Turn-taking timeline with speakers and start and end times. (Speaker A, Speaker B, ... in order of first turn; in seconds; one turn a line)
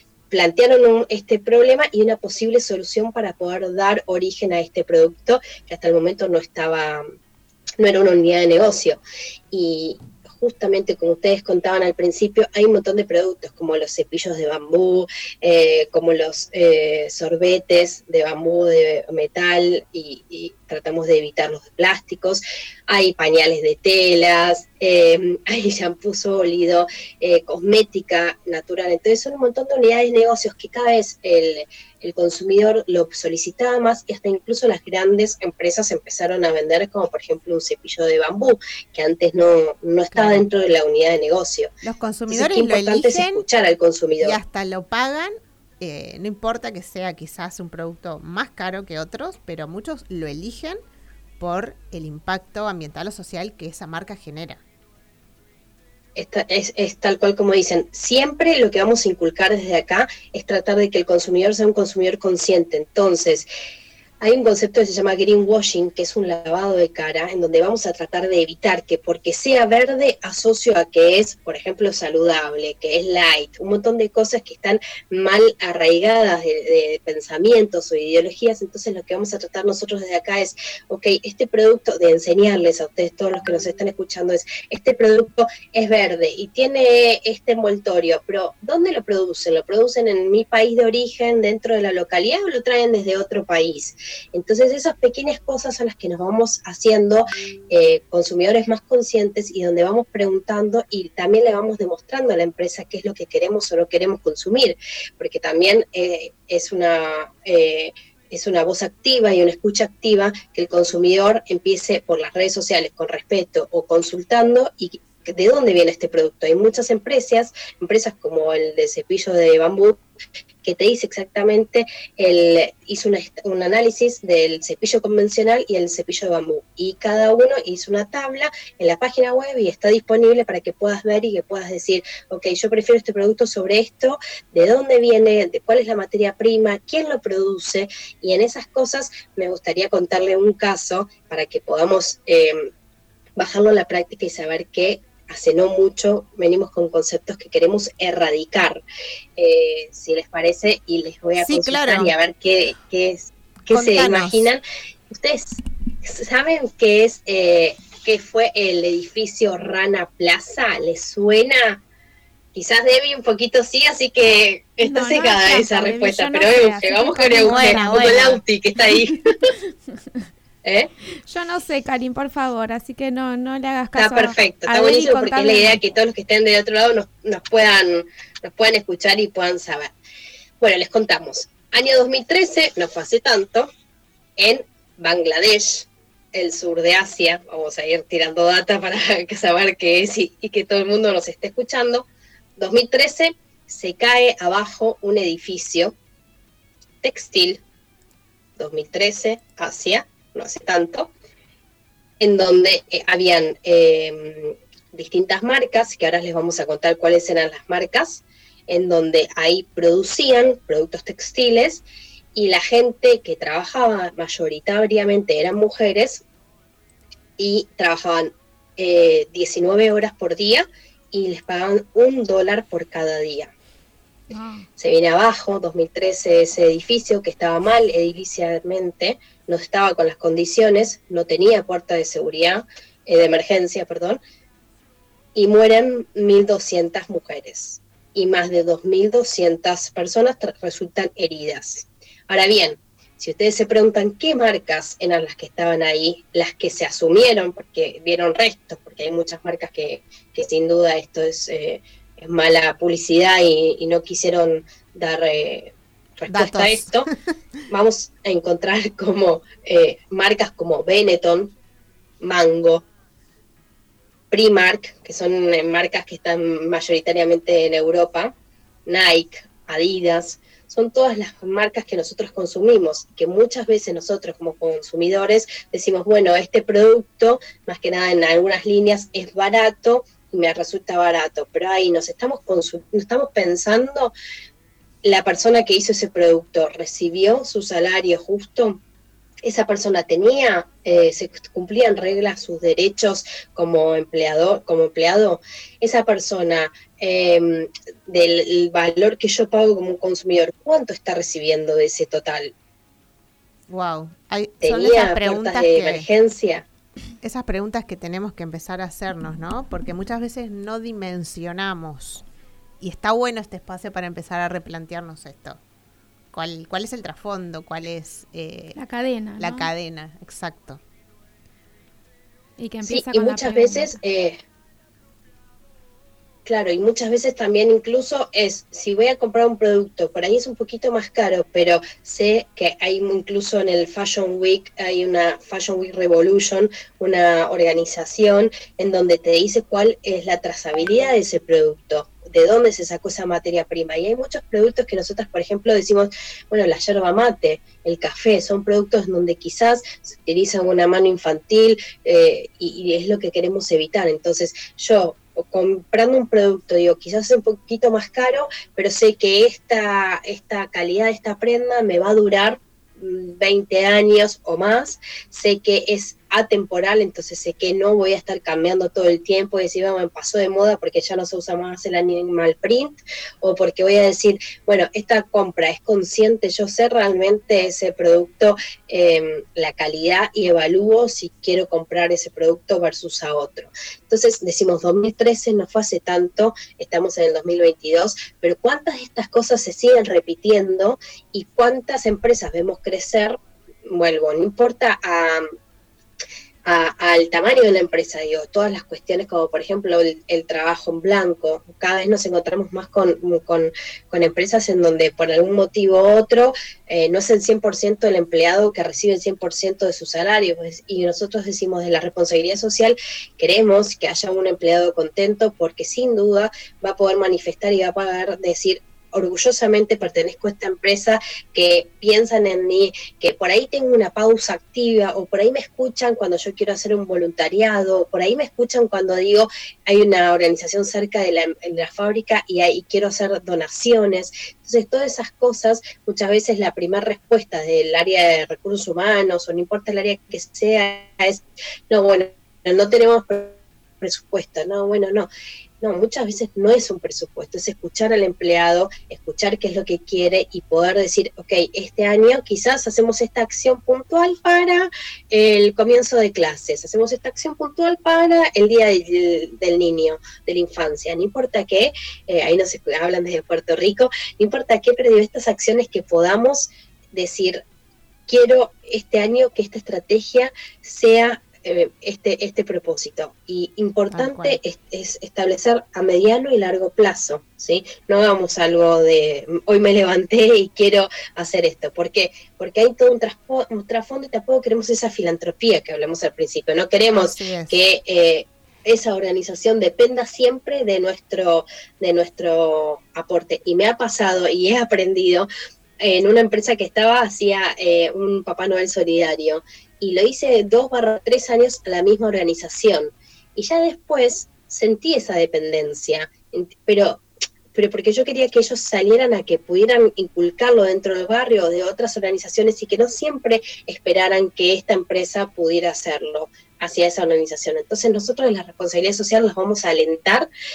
Speaker A: 0.3-7.0
Speaker A: 7.8-9.0
Speaker A: 9.5-41.7
Speaker B: 40.1-40.5
Speaker B: 41.8-43.4
Speaker A: 42.3-44.4
Speaker B: 44.2-50.8
Speaker B: 51.4-54.6
Speaker A: 56.2-63.5
Speaker A: 64.2-120.0
Speaker A: 120.6-142.7
Speaker A: 143.4-148.8
Speaker A: 149.4-161.8
Speaker B: 151.4-152.1
Speaker B: 153.7-154.5
Speaker A: 162.6-169.2
Speaker C: 164.8-168.2
Speaker B: 167.4-168.4
Speaker A: 170.6-170.9
Speaker C: 171.3-175.8
Speaker A: 173.9-179.9
Speaker A: 180.6-183.7
Speaker A: 184.4-192.1
Speaker A: 192.6-195.9
Speaker A: 197.0-197.6
Speaker A: 198.6-201.1
Speaker A: 202.2-211.8
Speaker A: 212.3-216.2
Speaker A: 217.4-223.5
Speaker C: 224.3-224.7
Speaker A: 224.8-234.2
Speaker A: 235.3-257.1
Speaker B: 256.3-257.1
Speaker A: 257.7-261.5
Speaker A: 262.2-262.9
Speaker A: 264.3-268.3
Speaker A: 268.9-284.1
Speaker A: 285.0-288.8
Speaker A: 289.4-302.5
Speaker B: 303.7-306.1
Speaker A: 304.6-306.6
Speaker B: 307.2-312.2
Speaker B: 312.8-315.6
Speaker B: 316.3-318.8
Speaker C: 318.7-319.7
Speaker B: 319.4-320.8
Speaker C: 322.6-324.0
Speaker A: 322.9-324.4
Speaker A: 326.4-395.5
Speaker A: 396.6-445.3
Speaker A: 445.8-467.6
Speaker A: 468.3-495.5
Speaker B: 474.1-474.6
Speaker B: 487.1-487.8
Speaker A: 496.0-507.2
Speaker A: 507.7-520.5